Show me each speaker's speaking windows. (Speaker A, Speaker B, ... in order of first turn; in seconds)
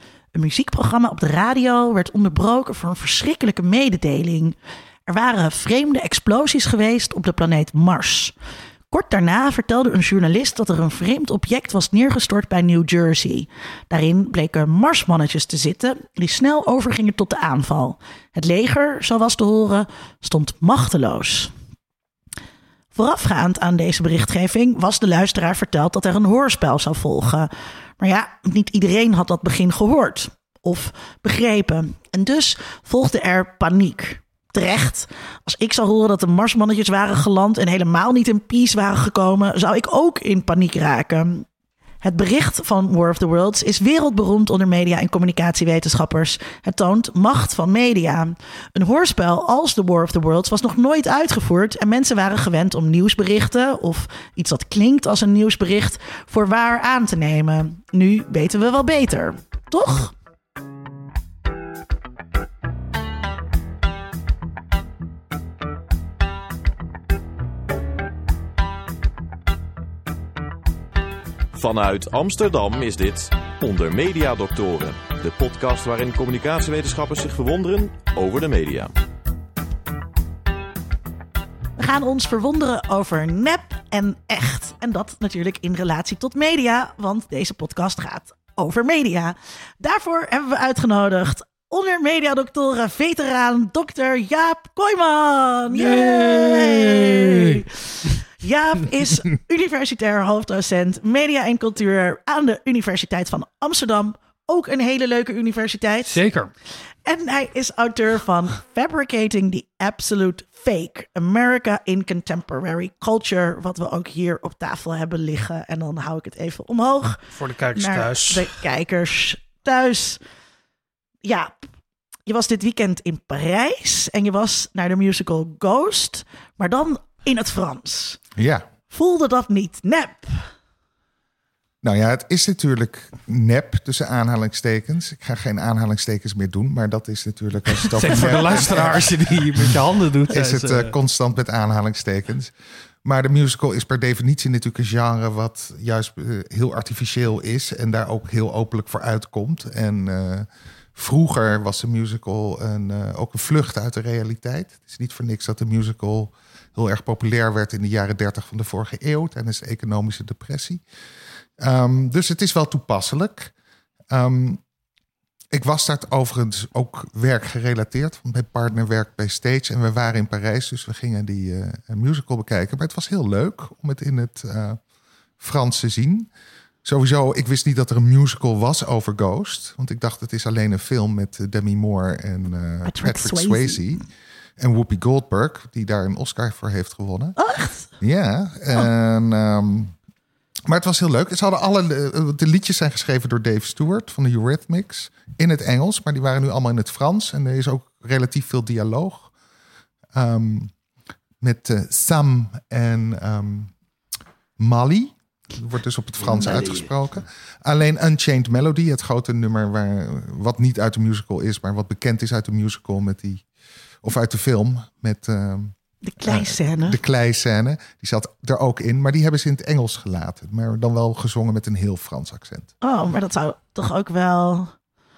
Speaker A: 0.3-4.5, 5.1-8.3, 8.9-21.5, 22.9-41.5, 42.0-60.1, 81.8-106.2, 107.0-117.2, 117.8-120.2, 121.2-121.6, 122.2-128.2, 128.9-130.5, 182.8-183.8, 187.3-187.9, 216.0-217.0, 222.8-224.7
Speaker B: 71.5-78.9
Speaker C: 95.7-98.2, 106.1-106.5, 117.3-118.5, 138.0-140.9
Speaker D: 128.3-128.7, 131.8-142.5, 143.0-160.8, 161.6-163.5, 164.1-164.6, 165.5-174.8, 175.4-176.3, 176.8-184.0, 184.6-187.3, 188.0-189.9, 190.7-199.3, 200.1-200.7, 201.4-203.7, 204.6-213.4, 214.0-222.7